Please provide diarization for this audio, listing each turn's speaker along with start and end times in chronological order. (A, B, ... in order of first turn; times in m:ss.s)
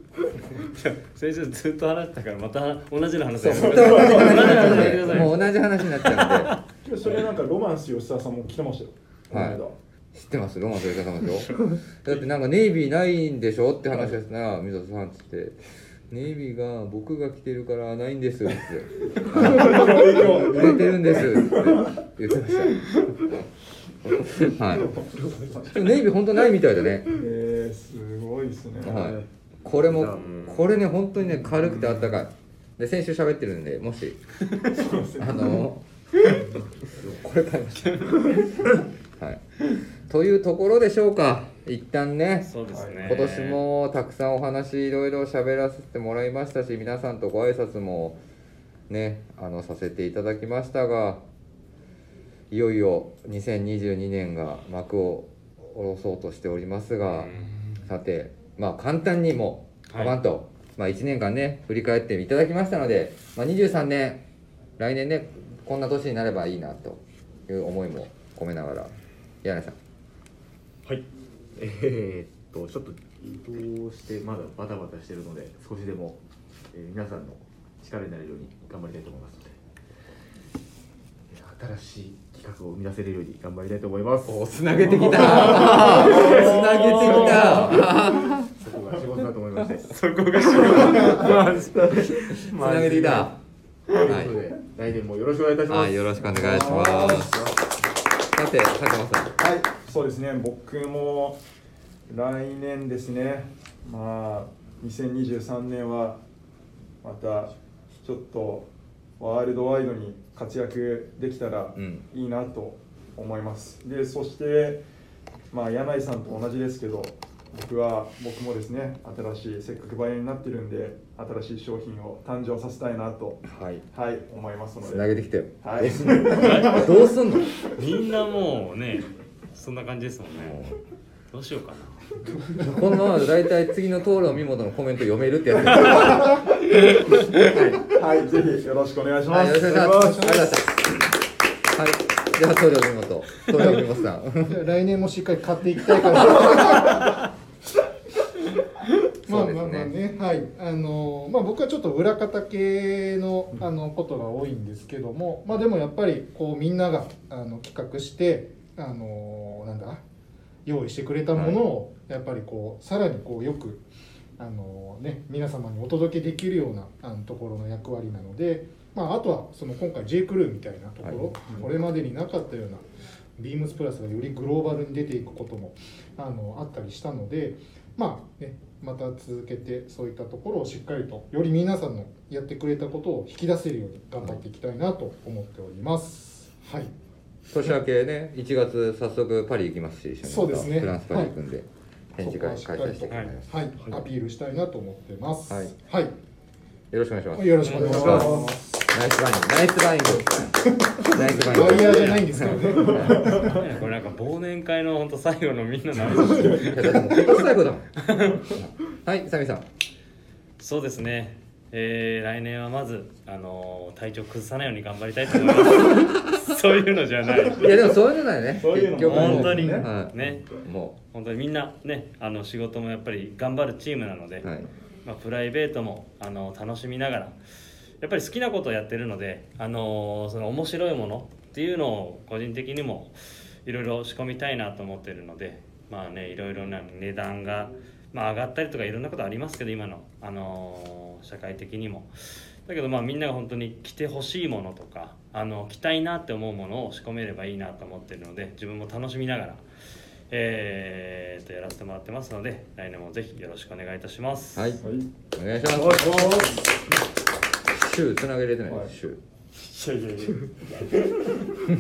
0:00.5-0:06.6 A
0:03.4-0:06.5 B
0:03.5-0:05.3 C
0:06.8-0:09.8 C
0:09.3-0:09.6 B
0:10.1-0:15.6 B
0:16.1-0:23.4 B
0:19.2-0:22.0 C
0:24.1-0:24.9 B
0:24.1-0:25.8 C
0:25.2-0:25.6 D
0:25.7-0:27.2 B
0:27.1-0:29.1 C
0:28.8-0:34.2 B
0:28.9-0:30.6 D
0:30.2-0:30.6 A
0:31.6-0:32.0 C
0:34.7-0:35.7 C
0:35.2-0:35.8 B
0:37.0-0:42.5 B
0:37.8-0:38.4 A
0:42.4-0:43.6 A
0:42.7-0:43.2 C
0:43.0-0:48.2 B
0:48.9-0:51.2 B
0:52.5-1:04.2 B
0:57.1-0:57.6 A
0:59.9-1:00.2 A
1:04.8-1:09.8 B
1:10.8-1:16.2 D
1:16.7-1:19.6 D
1:21.3-1:30.0 D
1:24.3-1:28.5 B
1:25.6-1:27.7 C
1:26.0-1:27.8 A
1:29.9-1:33.3 A
1:30.6-1:32.1 D
1:30.7-1:31.4 C
1:32.4-1:33.4 B
1:34.0-1:37.6 D
1:34.0-1:34.4 B
1:35.7-1:37.4 B
1:36.3-1:37.3 C
1:38.3-1:39.4 B
1:39.4-1:41.4 C
1:42.1-1:46.2 C
1:47.0-1:54.8 C
1:51.8-1:52.0 B
1:55.5-2:06.9 C
2:03.5-2:03.8 B
2:04.8-2:07.6 B
2:06.4-2:07.1 A
2:07.7-2:10.6 A
2:10.4-2:10.8 B
2:11.3-2:12.0 A
2:12.6-2:16.4 B
2:17.3-2:17.9 B
2:17.8-2:20.1 C
2:19.3-2:21.0 B
2:19.7-2:20.5 E
2:21.7-2:24.6 B
2:23.5-2:23.9 E
2:24.4-2:27.1 E
2:26.1-2:26.8 B
2:29.2-2:29.9 B
2:29.3-2:40.0 E
2:40.7-2:43.8 E
2:41.3-2:41.6 B
2:44.4-2:52.8 E
2:51.0-2:51.3 B
2:53.4-3:06.9 E
3:07.5-3:13.7 B
3:10.2-3:11.4 E
3:12.2-3:16.1 E
3:16.9-3:23.3 B
3:17.4-3:18.6 E
3:17.6-3:18.2 A
3:17.7-3:18.8 C
3:20.7-3:23.6 E
3:21.8-3:22.3 A
3:22.7-3:23.6 C
3:23.3-3:27.3 A
3:26.2-3:26.9 C
3:26.5-3:29.7 B
3:28.0-3:28.4 A
3:30.6-3:37.8 A
3:37.6-3:41.0 B
3:38.6-3:39.9 C
3:39.0-3:40.5 A
3:41.1-3:44.5 A
3:44.4-3:44.7 B
3:45.0-3:47.4 A
3:48.0-4:09.6 A
4:10.3-4:14.8 A
4:14.6-4:16.4 B
4:14.8-4:15.1 C
4:15.7-4:16.7 D
4:17.7-4:19.2 B
4:18.7-4:18.9 C
4:19.6-4:21.6 C